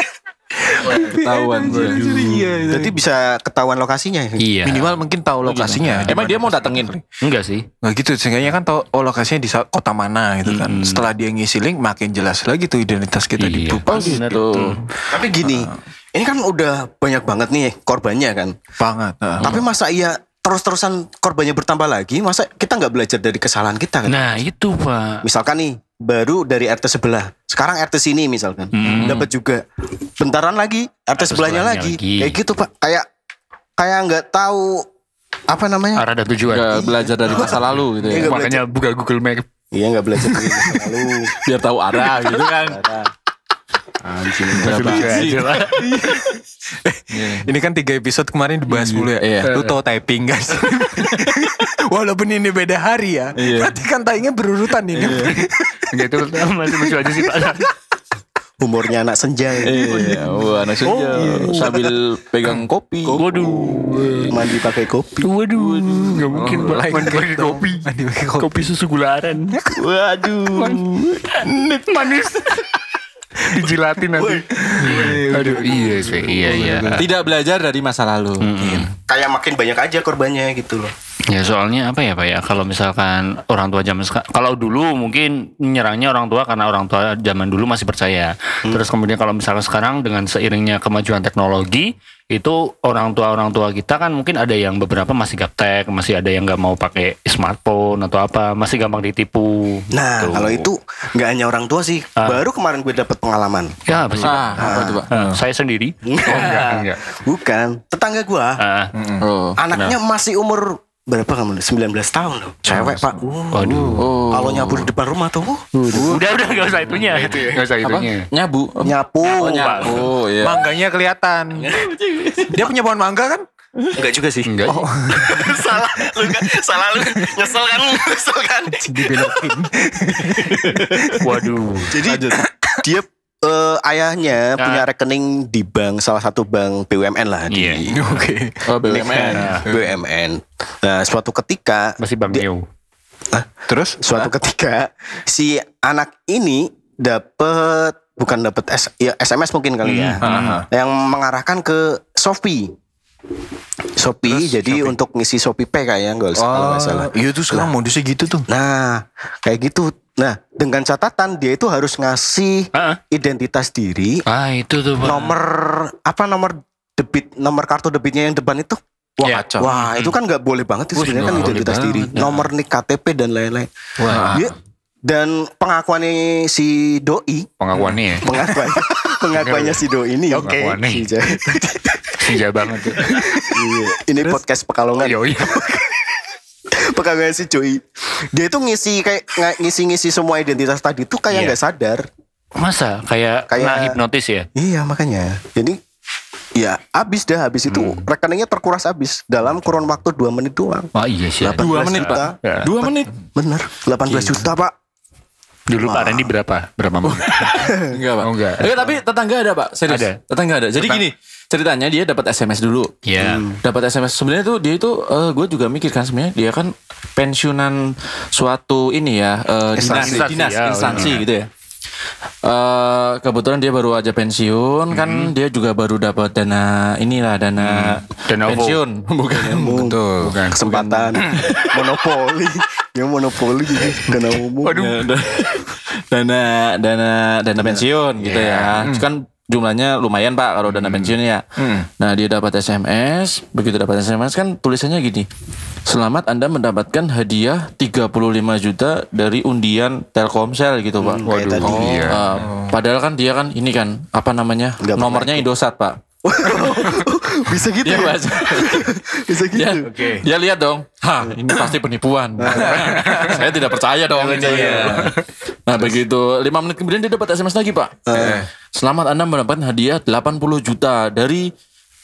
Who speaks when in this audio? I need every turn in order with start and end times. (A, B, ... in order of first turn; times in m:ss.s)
0:00.6-0:03.0 A
0:00.9-0:02.6 B
0:01.7-0:02.3 C
0:02.7-0:04.4 D
0:04.4-0:04.9 C
0:04.6-0:07.0 A
0:05.4-0:06.9 B
0:07.2-0:07.7 C
0:07.8-0:14.3 A
0:10.5-0:11.0 C
0:13.4-0:14.8 C
0:13.9-0:14.8 B
0:15.1-0:18.6 D
0:15.4-0:15.7 A
0:18.8-0:19.6 A
0:19.4-0:24.4 D
0:24.1-0:25.2 C
0:25.2-0:29.6 D
0:28.7-0:29.2 C
0:28.8-0:29.3 B
0:30.2-0:33.0 D
0:31.2-0:32.4 C
0:33.8-0:34.9 D
0:35.5-0:36.0 D
0:36.0-0:36.9 C
0:36.5-0:38.3 B
0:36.8-0:38.7 D
0:38.1-0:39.5 C
0:39.7-0:41.3 D
0:40.4-0:40.9 A
0:41.4-0:42.8 B
0:42.6-0:43.1 D
0:44.0-0:45.3 D
0:44.5-0:45.7 B
0:44.6-0:45.9 C
0:45.8-0:55.9 A
0:47.1-0:47.5 B
0:49.0-0:49.6 B
0:53.4-0:53.8 B
0:54.9-0:55.4 B
0:55.1-0:55.4 C
0:55.9-0:57.7 C
0:56.6-0:57.7 A
0:58.6-1:00.2 D
0:59.6-1:03.2 B
0:59.8-1:01.9 A
1:01.0-1:01.3 D
1:03.0-1:05.3 D
1:03.1-1:04.4 C
1:05.2-1:07.9 C
1:05.5-1:06.9 B
1:06.3-1:08.5 A
1:08.4-1:09.6 C
1:09.6-1:09.8 A
1:09.8-1:12.3 B
1:10.5-1:12.7 C
1:13.4-1:17.1 C
1:14.2-1:15.2 D
1:14.6-1:17.1 A
1:17.0-1:18.8 B
1:18.4-1:18.9 C
1:18.6-1:18.9 A
1:19.1-1:20.9 D
1:21.3-1:40.7 C
1:39.9-1:45.0 D
1:43.9-1:47.0 C
1:44.2-1:45.1 B
1:45.1-1:45.4 A
1:46.0-1:48.6 D
1:48.6-1:48.9 C
1:48.9-1:49.2 A
1:49.2-1:49.6 B
1:49.6-1:56.1 D
1:49.7-1:50.0 C
1:52.6-1:54.1 A
1:53.5-1:54.0 C
1:54.0-1:54.9 B
1:55.8-1:58.2 C
1:55.9-1:56.9 A
1:57.0-1:57.6 D
1:57.8-2:00.7 B
1:58.8-2:00.0 D
1:59.3-2:00.1 C
2:00.4-2:01.8 A
2:01.7-2:02.7 B
2:02.5-2:03.4 A
2:03.9-2:04.5 D
2:04.5-2:05.5 C
2:04.6-2:07.3 A
2:05.3-2:09.2 D
2:08.8-2:11.5 A
2:10.3-2:11.2 B
2:11.2-2:12.0 C
2:11.9-2:18.0 D
2:12.0-2:12.4 B
2:12.4-2:12.8 A
2:14.6-2:14.9 C
2:17.5-2:17.8 C
2:17.9-2:18.6 A
2:18.7-2:19.6 B
2:18.8-2:22.4 D
2:19.3-2:19.7 C
2:19.5-2:19.9 A
2:22.0-2:22.6 C
2:23.7-2:24.0 A
2:24.0-2:32.7 D
2:29.8-2:30.6 C
2:30.2-2:30.7 A
2:34.0-2:37.7 D
2:34.3-2:35.0 A
2:36.4-2:38.5 A
2:38.5-2:44.2 D
2:42.7-2:43.0 C
2:44.3-2:45.4 C
2:45.0-2:53.7 D
2:49.2-2:49.7 A
2:49.2-2:50.2 C
2:50.9-2:52.5 C
2:54.0-2:54.5 C
2:54.0-2:54.5 A
2:55.1-2:57.5 D
2:57.6-2:58.3 C
2:57.7-2:58.4 A
2:58.2-3:02.2 D
2:59.3-3:01.1 C
3:02.2-3:03.5 C
3:03.5-3:06.1 D
3:05.0-3:05.7 C
3:06.7-3:12.1 D
3:11.3-3:11.6 C
3:12.6-3:14.5 C
3:13.5-3:14.0 D
3:14.6-3:15.8 D
3:16.6-3:24.7 D
3:17.7-3:18.1 C
3:21.0-3:22.7 C
3:21.5-3:23.1 B
3:25.7-3:27.7 C
3:25.8-3:26.3 D
3:27.0-3:32.9 B
3:27.5-3:28.0 D
3:28.2-3:28.8 C
3:29.9-3:30.2 C
3:33.0-3:33.4 C
3:33.2-3:33.6 D
3:33.6-3:41.5 B
3:39.8-3:40.3 D
3:39.8-3:41.2 C
3:42.4-3:49.8 B
3:44.9-3:45.3 C
3:47.6-3:48.8 C
3:49.4-3:50.0 D
3:49.7-3:50.4 A
3:50.2-3:50.6 C
3:50.5-3:54.9 D
3:50.6-3:51.8 B
3:51.2-3:51.4 A
3:54.6-4:01.4 B
3:54.7-3:55.0 C
3:58.2-3:58.9 C
3:58.8-3:59.1 A
4:00.7-4:01.9 A
4:02.0-4:05.3 B
4:05.9-4:11.3 B
4:11.0-4:12.1 D
4:11.3-4:12.2 C
4:11.6-4:12.8 A
4:12.1-4:16.0 B
4:14.8-4:15.5 D
4:16.2-4:19.9 D
4:17.8-4:19.0 B
4:19.5-4:31.5 B
4:19.8-4:20.2 A
4:22.4-4:22.8 D
4:22.5-4:23.4 A
4:24.2-4:25.1 A
4:24.3-4:24.9 D
4:28.1-4:28.4 D
4:28.1-4:28.5 A